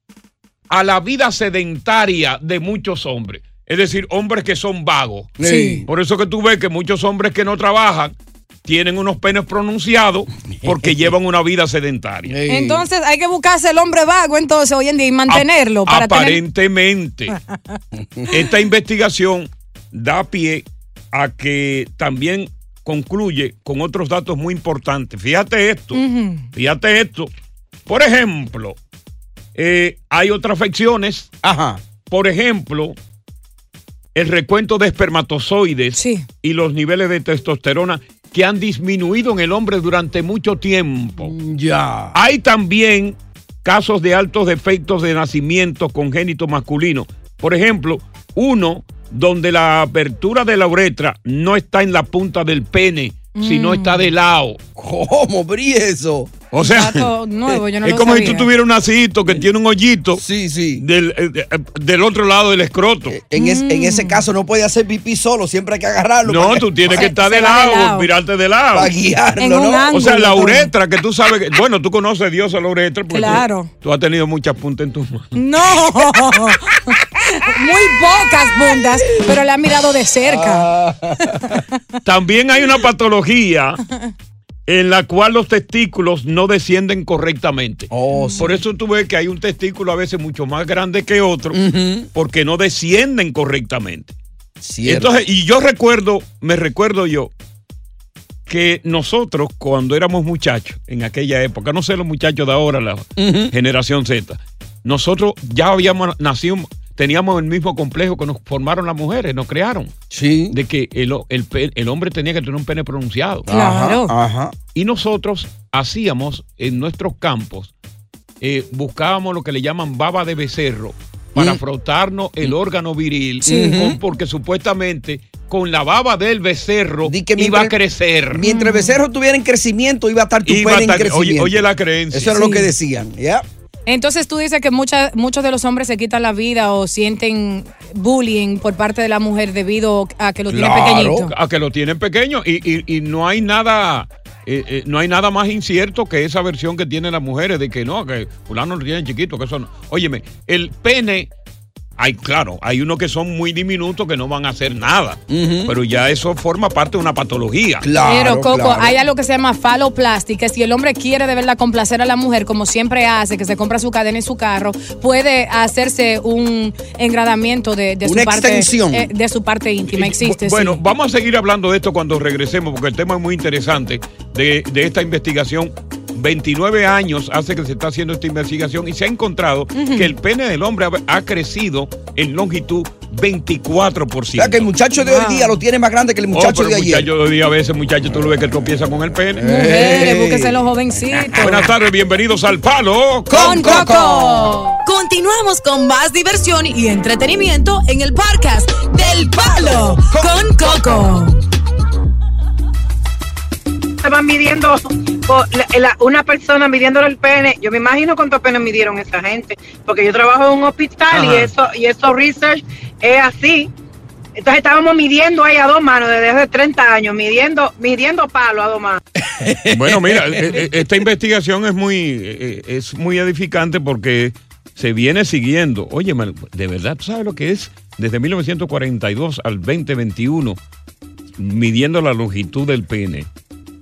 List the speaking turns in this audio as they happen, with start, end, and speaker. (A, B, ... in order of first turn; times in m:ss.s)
0:00.7-0:05.3 A
0:05.4-0:05.9 B
0:05.4-0:05.8 C
0:05.9-0:12.4 A
0:10.5-0:11.1 B
0:12.2-0:12.9 B
0:12.5-0:16.4 C
0:15.3-0:17.4 A
0:17.3-0:17.8 C
0:17.9-0:18.3 B
0:18.3-0:26.0 A
0:25.9-0:26.5 C
0:26.5-0:27.3 A
0:27.9-0:28.8 A
0:29.6-0:31.3 A
0:31.4-0:31.8 B
0:32.1-0:33.0 A
0:34.2-0:41.3 A
0:36.0-0:36.3 C
0:41.2-0:42.2 B
0:42.1-0:54.6 A
0:53.4-0:54.1 C
0:54.8-0:56.3 B
0:56.5-0:57.1 A
0:56.6-0:58.5 C
0:57.8-1:00.2 A
1:00.1-1:00.8 B
1:00.8-1:03.2 A
1:03.1-1:07.1 B
1:03.4-1:04.2 C
1:06.2-1:08.9 A
1:06.9-1:08.1 C
1:08.7-1:09.9 B
1:09.4-1:10.7 C
1:09.9-1:15.4 A
1:13.1-1:13.7 C
1:15.4-1:20.7 C
1:20.2-1:21.6 B
1:21.2-1:21.8 C
1:22.0-1:23.8 A
1:24.7-1:31.6 A
1:27.9-1:28.5 B
1:28.1-1:28.6 C
1:31.5-1:32.1 B
1:32.1-1:34.2 A
1:34.6-1:35.2 B
1:34.8-1:37.3 A
1:38.5-1:49.9 A
1:43.2-1:43.5 B
1:50.1-1:50.6 B
1:50.5-1:53.5 A
1:53.5-1:54.6 B
1:53.5-1:54.1 C
1:54.8-1:57.7 A
1:58.4-2:08.5 A
2:01.4-2:01.6 B
2:03.4-2:04.0 C
2:03.5-2:04.0 B
2:07.0-2:07.8 B
2:08.3-2:13.4 B
2:08.4-2:09.0 C
2:10.5-2:12.5 A
2:12.3-2:12.7 C
2:13.9-2:21.3 C
2:20.5-2:21.3 B
2:20.7-2:31.3 A
2:32.0-2:37.9 A
2:35.3-2:35.8 B
2:37.8-2:39.0 B
2:38.0-2:50.8 C
2:48.0-2:49.1 B
2:49.9-3:04.7 A
2:59.8-3:00.1 C
3:04.4-3:07.1 B
3:05.0-3:05.6 C
3:06.3-3:09.5 A
3:09.4-3:11.7 B
3:09.4-3:11.6 C
3:11.4-3:13.9 A
3:13.3-3:14.5 B
3:13.3-3:14.8 C
3:14.8-3:21.4 D
3:24.0-3:33.7 E
3:31.1-3:31.5 A
3:34.4-3:39.0 E
3:39.2-3:40.8 B
3:39.7-3:50.6 A
3:51.4-3:53.3 A